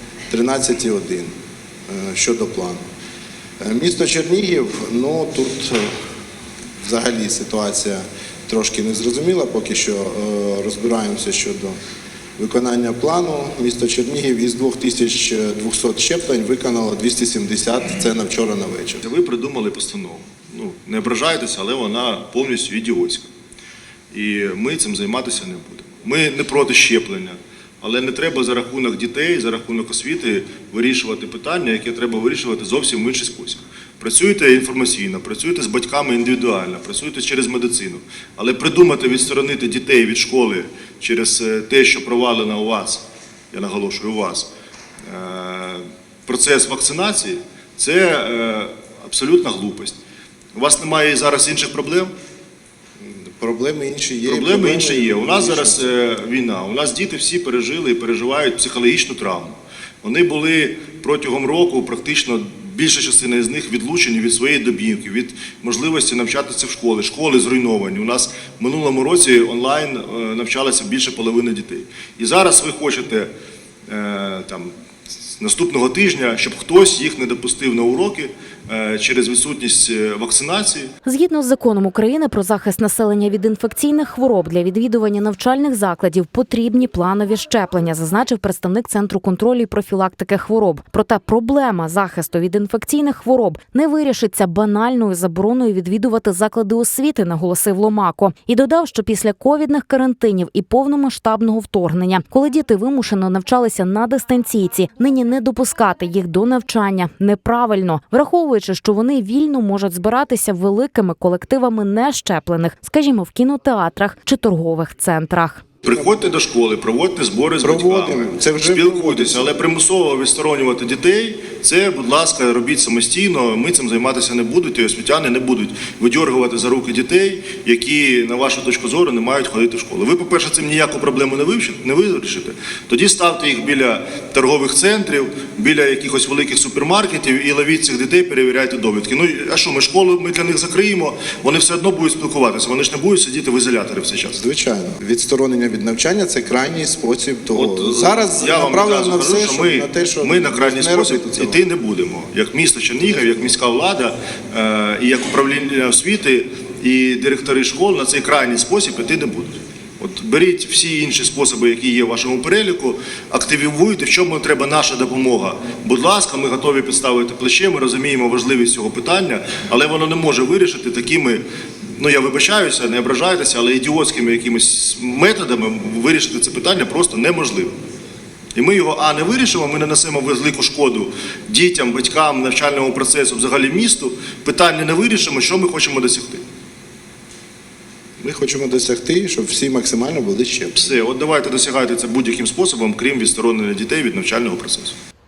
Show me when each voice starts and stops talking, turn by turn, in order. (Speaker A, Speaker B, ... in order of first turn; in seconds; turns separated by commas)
Speaker A: 0.3-1.3, Speaker A: 1.9-2.8, Speaker A: 3.6-5.9, Speaker A: 6.8-11.8, Speaker A: 12.4-19.0, Speaker B: 19.0-23.3, Speaker B: 24.1-44.5, Speaker B: 45.0-50.0, Speaker B: 50.5-52.1, Speaker A: 53.0-55.9, Speaker B: 54.2-73.3, Speaker B: 73.9-74.7, Speaker B: 75.4-80.9, Speaker C: 81.0-115.6, Speaker B: 115.8-144.4, Speaker A: 117.6-119.5, Speaker A: 144.3-151.6, Speaker B: 147.5-171.4, Speaker B: 171.9-177.7, Speaker B: 178.5-186.4, Speaker A: 188.2-190.9, Speaker B: 190.8-194.9